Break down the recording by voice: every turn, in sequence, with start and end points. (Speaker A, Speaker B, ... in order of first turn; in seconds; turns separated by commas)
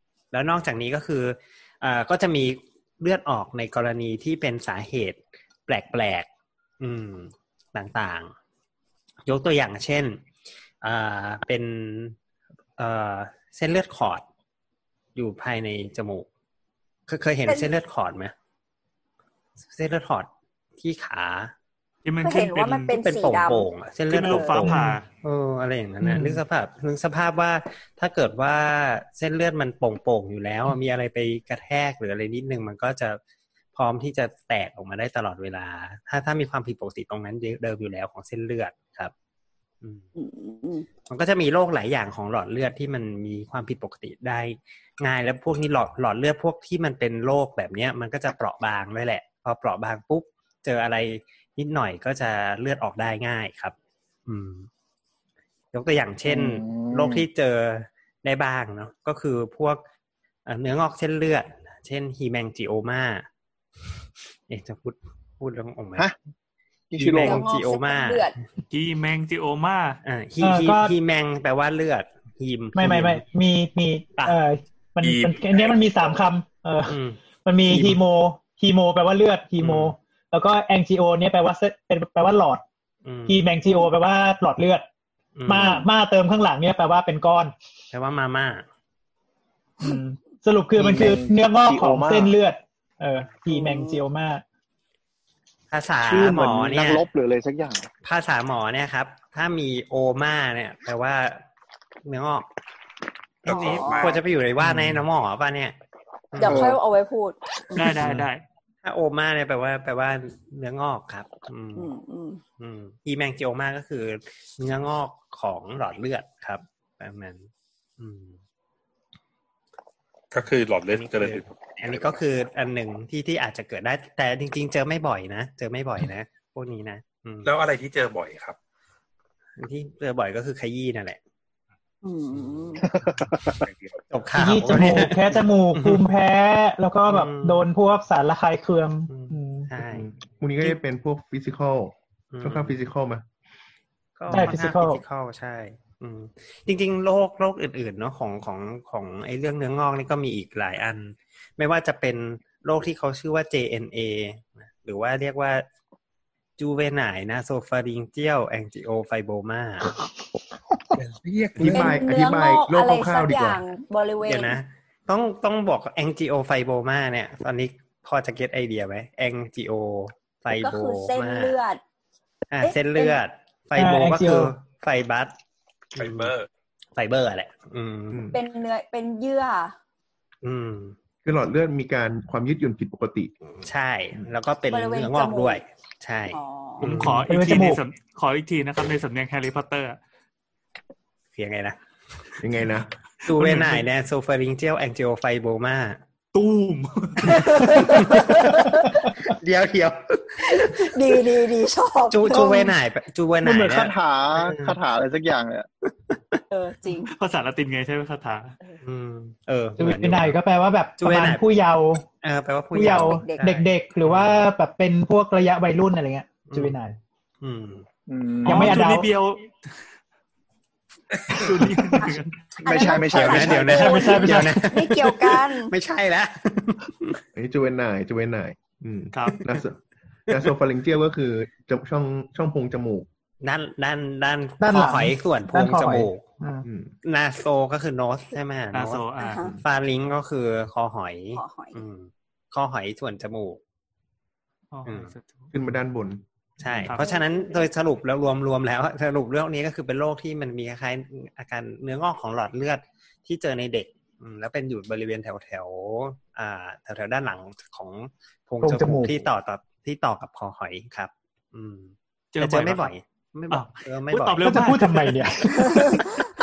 Speaker A: 0.3-6.3, Speaker A: 6.8-8.3, Speaker A: 9.3-10.2, Speaker A: 10.8-12.2, Speaker A: 12.8-14.2, Speaker A: 15.2-16.3, Speaker A: 17.1-18.3, Speaker B: 17.5-17.7, Speaker A: 19.7-21.5, Speaker C: 22.1-23.0, Speaker B: 22.2-23.7, Speaker A: 23.0-33.2, Speaker C: 24.1-25.1, Speaker B: 24.2-24.6, Speaker D: 24.6-25.0, Speaker D: 26.0-26.4, Speaker A: 33.7-39.1, Speaker B: 40.2-40.9, Speaker A: 41.1-53.8, Speaker A: 54.3-54.7, Speaker A: 55.7-59.8, Speaker E: 56.2-57.3, Speaker A: 60.5-63.3, Speaker A: 64.5-66.1, Speaker E: 66.9-67.4, Speaker A: 67.0-68.3, Speaker B: 67.2-68.3, Speaker C: 68.7-70.0, Speaker A: 70.0-73.2, Speaker D: 70.4-71.0, Speaker D: 72.8-82.6, Speaker F: 75.0-76.2, Speaker A: 76.9-77.2, Speaker A: 77.7-78.0, Speaker A: 79.6-79.9, Speaker A: 83.0-83.4, Speaker D: 83.3-84.8, Speaker A: 85.4-85.9, Speaker D: 85.5-87.5, Speaker A: 87.9-88.7, Speaker D: 89.8-94.4, Speaker E: 90.8-92.3, Speaker B: 93.5-94.0, Speaker A: 95.7-97.0, Speaker E: 96.0-97.9, Speaker A: 98.0-101.5, Speaker A: 102.0-102.5, Speaker F: 103.4-104.2, Speaker A: 103.4-105.8, Speaker B: 103.5-104.2, Speaker C: 104.6-105.0, Speaker A: 106.3-106.8, Speaker B: 106.4-108.0, Speaker E: 106.5-106.8, Speaker C: 107.7-108.4, Speaker A: 107.8-108.3, Speaker A: 108.8-111.9, Speaker B: 111.8-112.4, Speaker A: 112.6-117.5, Speaker A: 118.0-118.4, Speaker F: 120.3-122.2, Speaker A: 121.0-127.5, Speaker F: 127.4-128.6, Speaker A: 129.6-131.2, Speaker B: 132.0-132.8, Speaker E: 132.8-133.5, Speaker F: 133.4-134.0, Speaker A: 134.1-136.0, Speaker D: 134.4-139.7, Speaker A: 137.1-137.6, Speaker A: 139.1-140.1, Speaker G: 139.8-143.2, Speaker A: 142.3-142.8, Speaker A: 144.2-155.7, Speaker G: 144.3-144.6, Speaker D: 144.3-145.0, Speaker A: 156.6-160.0, Speaker F: 161.0-162.0, Speaker G: 161.6-163.6, Speaker B: 161.7-164.6, Speaker A: 164.2-171.6, Speaker B: 170.5-171.8, Speaker A: 172.5-175.3, Speaker B: 172.6-173.2, Speaker D: 173.8-174.5, Speaker A: 176.0-176.3, Speaker F: 176.0-176.5, Speaker A: 177.0-178.3, Speaker G: 178.1-178.4, Speaker B: 178.3-179.8, Speaker A: 180.4-180.9, Speaker G: 181.2-183.3, Speaker A: 183.5-187.3, Speaker B: 184.7-185.6, Speaker B: 186.3-186.9, Speaker C: 186.8-190.0, Speaker D: 187.3-187.8, Speaker A: 191.3-191.8, Speaker G: 192.4-192.9, Speaker A: 193.2-196.0, Speaker C: 193.4-193.8, Speaker C: 196.3-197.7, Speaker B: 197.2-199.1, Speaker A: 197.2-200.9, Speaker B: 200.4-202.8, Speaker A: 202.1-204.8, Speaker E: 203.4-205.7, Speaker A: 205.9-206.4, Speaker B: 206.5-207.1, Speaker C: 207.1-208.6, Speaker A: 208.8-210.4, Speaker D: 209.8-212.0, Speaker A: 211.0-211.4, Speaker A: 212.2-214.5, Speaker D: 212.7-217.0, Speaker B: 212.8-213.5, Speaker A: 216.5-216.8, Speaker A: 217.4-217.9, Speaker E: 218.1-218.7, Speaker D: 218.4-219.1, Speaker C: 218.4-219.5, Speaker C: 221.3-222.4, Speaker B: 222.0-225.7, Speaker E: 222.7-224.4, Speaker A: 222.8-227.2, Speaker D: 223.7-224.6, Speaker G: 227.3-233.1, Speaker C: 229.1-229.4, Speaker A: 233.4-236.2, Speaker D: 234.6-236.7, Speaker G: 236.7-236.9, Speaker A: 237.0-243.6, Speaker C: 238.7-239.4, Speaker B: 239.2-239.6, Speaker B: 241.3-241.8, Speaker C: 244.7-245.5, Speaker A: 244.9-245.1, Speaker G: 245.5-246.2, Speaker A: 246.6-264.7, Speaker C: 246.8-247.1, Speaker B: 247.0-247.7, Speaker D: 258.6-259.2, Speaker C: 262.3-262.9, Speaker C: 263.5-265.9, Speaker D: 264.4-266.1